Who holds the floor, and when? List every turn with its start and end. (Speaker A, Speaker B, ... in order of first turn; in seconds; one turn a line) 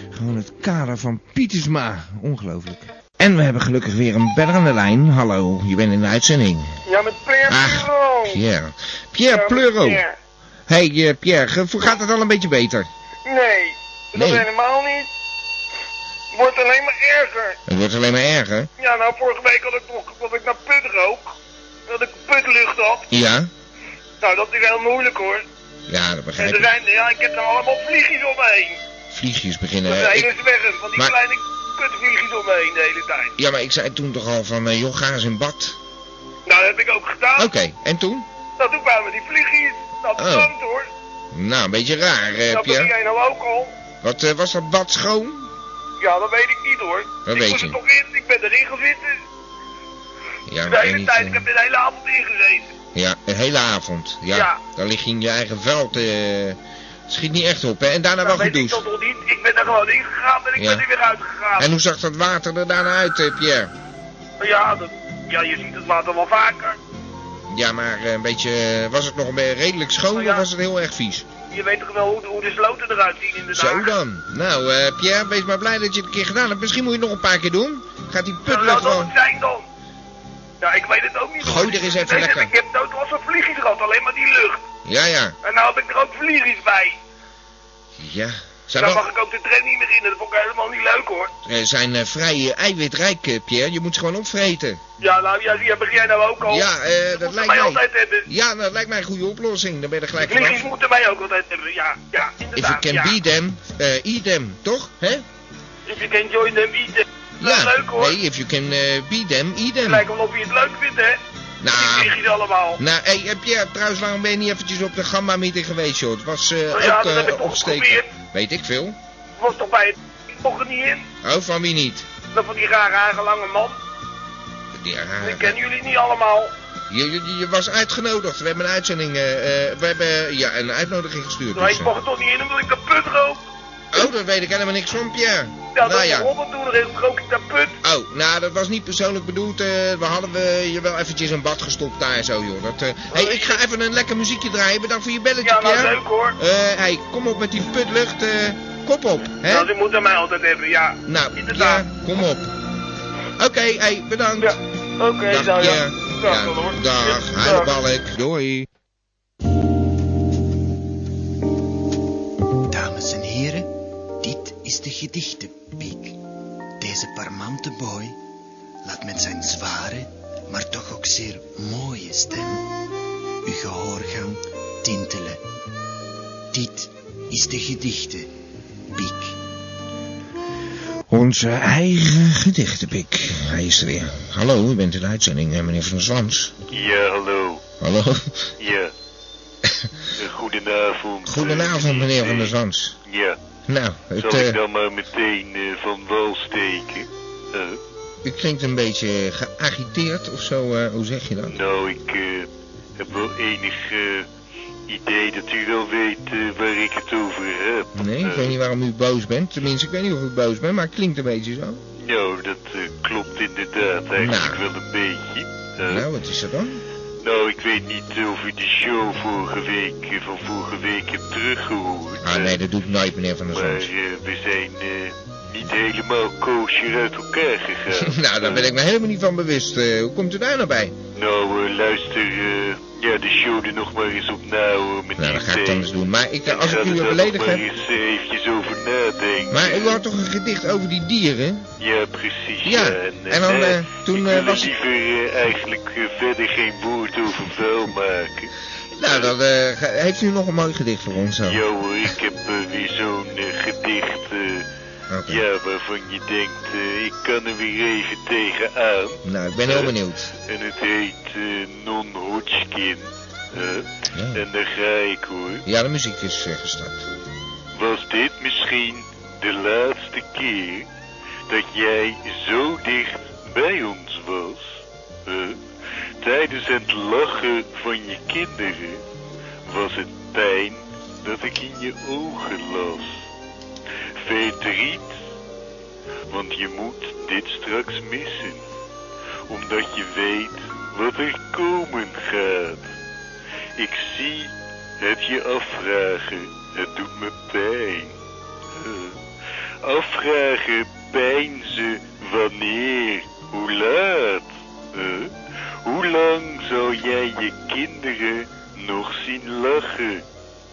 Speaker A: 0.1-6.7
Speaker B: 6.9-8.4
Speaker A: 7.5-10.0
Speaker B: 9.3-10.1
Speaker A: 10.7-12.9
Speaker B: 13.3-15.1
Speaker A: 14.1-14.4
Speaker B: 16.3-17.6
Speaker A: 17.6-18.7
Speaker B: 18.8-21.3
Speaker B: 21.9-23.0
Speaker A: 23.1-23.5
Speaker B: 24.2-25.4
Speaker A: 25.9-26.7
Speaker B: 26.4-28.8
Speaker A: 29.1-30.3
Speaker B: 29.9-33.3
Speaker A: 33.4-35.8
Speaker B: 36.5-37.5
Speaker A: 37.4-38.2
Speaker B: 38.6-40.9
Speaker A: 40.1-40.5
Speaker A: 41.3-42.9
Speaker B: 42.5-43.7
Speaker A: 44.0-45.5
Speaker B: 46.0-49.1
Speaker A: 47.2-47.8
Speaker A: 50.5-51.4
Speaker B: 50.7-52.7
Speaker A: 52.9-56.6
Speaker A: 57.1-58.8
Speaker B: 58.2-61.6
Speaker A: 60.5-60.8
Speaker A: 61.6-63.7
Speaker B: 64.4-66.8
Speaker A: 67.5-71.2
Speaker B: 70.1-70.4
Speaker B: 71.5-73.9
Speaker A: 73.5-79.1
Speaker B: 78.5-79.6
Speaker B: 80.6-84.6
Speaker A: 81.4-82.5
Speaker A: 84.8-85.3
Speaker B: 85.4-86.9
Speaker A: 88.0-89.1
Speaker B: 88.8-91.3
Speaker A: 91.4-94.8
Speaker B: 95.0-96.6
Speaker A: 96.5-100.6
Speaker B: 97.2-98.2
Speaker B: 100.2-103.1
Speaker A: 102.5-105.2
Speaker B: 105.9-108.1
Speaker A: 107.4-110.1
Speaker B: 109.8-111.2
Speaker A: 111.6-112.2
Speaker B: 111.7-112.8
Speaker A: 112.8-119.0
Speaker B: 116.7-118.0
Speaker B: 119.4-121.0
Speaker A: 121.2-122.1
Speaker B: 122.3-123.7
Speaker A: 124.7-125.6
Speaker B: 125.2-126.5
Speaker A: 126.9-131.9
Speaker B: 131.5-133.4
Speaker A: 133.9-136.3
Speaker B: 135.8-137.7
Speaker A: 137.8-149.7
Speaker B: 143.1-143.6
Speaker B: 145.4-146.3
Speaker B: 149.5-151.8
Speaker A: 151.1-152.4
Speaker A: 153.4-154.6
Speaker B: 154.4-157.7
Speaker A: 155.2-158.7
Speaker C: 162.7-163.7
Speaker C: 164.2-166.2
Speaker C: 166.8-168.1
Speaker C: 168.8-172.6
Speaker C: 173.4-175.4
Speaker C: 176.5-178.3
Speaker C: 178.9-179.3
Speaker A: 181.1-186.5
Speaker D: 186.7-187.6
Speaker A: 187.8-188.4
Speaker D: 188.6-188.9
Speaker D: 190.2-192.5
Speaker A: 191.2-192.9
Speaker D: 193.1-193.4
Speaker A: 193.7-194.6
Speaker D: 194.2-197.8
Speaker A: 198.2-201.6
Speaker D: 201.5-204.3
Speaker D: 204.9-208.6
Speaker A: 207.9-211.8
Speaker D: 212.0-216.1
Speaker A: 214.2-214.6
Speaker A: 215.9-216.8
Speaker D: 217.2-222.6
Speaker A: 222.2-223.9
Speaker D: 223.5-228.7
Speaker A: 228.0-230.9
Speaker D: 231.1-235.9
Speaker A: 235.2-237.6
Speaker D: 236.4-240.0
Speaker A: 239.5-241.7
Speaker D: 241.8-248.5
Speaker A: 242.6-244.7
Speaker A: 248.9-251.6
Speaker D: 249.0-249.3
Speaker D: 251.4-254.6
Speaker A: 255.1-255.4
Speaker D: 255.3-259.9
Speaker A: 259.2-260.3
Speaker D: 260.4-265.6
Speaker A: 264.1-264.4
Speaker A: 265.6-267.1
Speaker D: 267.8-270.9
Speaker D: 271.5-275.6
Speaker D: 276.2-279.0
Speaker D: 279.6-283.2
Speaker D: 284.2-285.1
Speaker D: 286.3-288.6
Speaker D: 289.5-292.9
Speaker D: 293.8-298.1
Speaker D: 298.7-299.2
Speaker D: 299.8-305.3
Speaker D: 305.8-310.2